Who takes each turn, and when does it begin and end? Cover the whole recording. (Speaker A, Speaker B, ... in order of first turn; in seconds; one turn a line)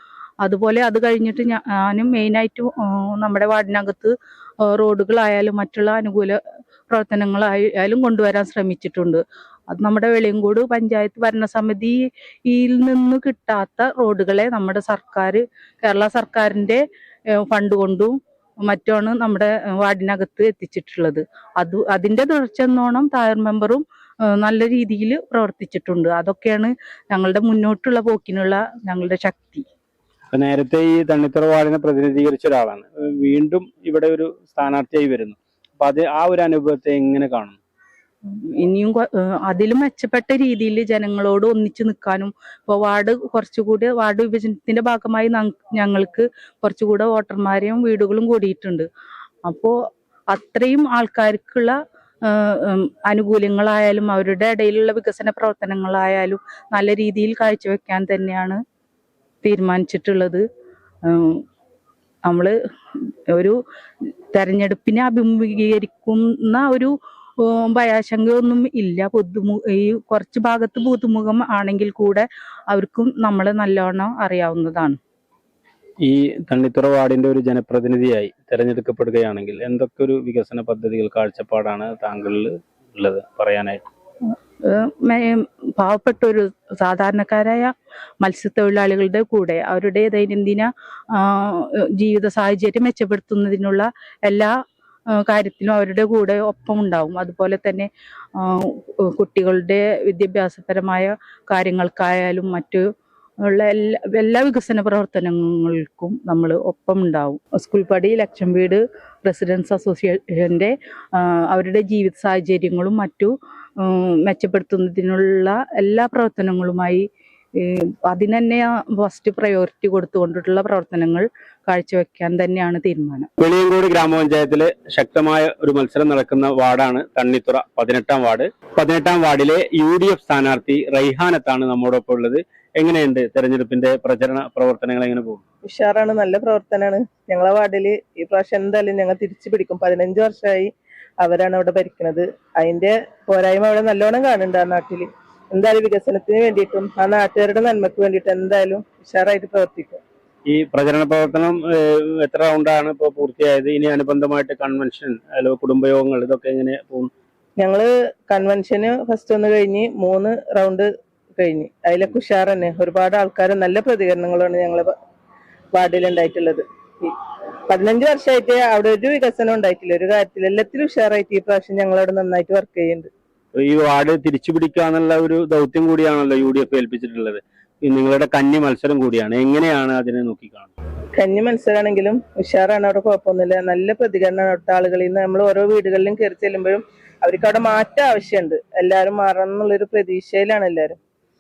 Speaker A: 0.4-16.8
Speaker A: 17.4-23.8
Speaker A: 24.4-29.6
Speaker B: 30.3-37.6
Speaker A: 38.3-48.9
Speaker A: 49.5-49.8
Speaker A: 50.3-58.6
Speaker A: 59.4-60.5
Speaker A: 61.0-61.4
Speaker A: 62.3-63.6
Speaker A: 64.3-75.0
Speaker B: 76.0-83.8
Speaker A: 84.6-94.5
Speaker A: 95.1-102.9
Speaker A: 103.4-117.0
Speaker A: 117.6-123.3
Speaker B: 123.4-135.4
Speaker C: 135.7-150.0
Speaker B: 150.5-157.1
Speaker C: 157.6-160.9
Speaker C: 161.4-164.9
Speaker C: 165.7-167.2
Speaker C: 167.7-173.1
Speaker B: 173.6-180.7
Speaker C: 181.2-191.0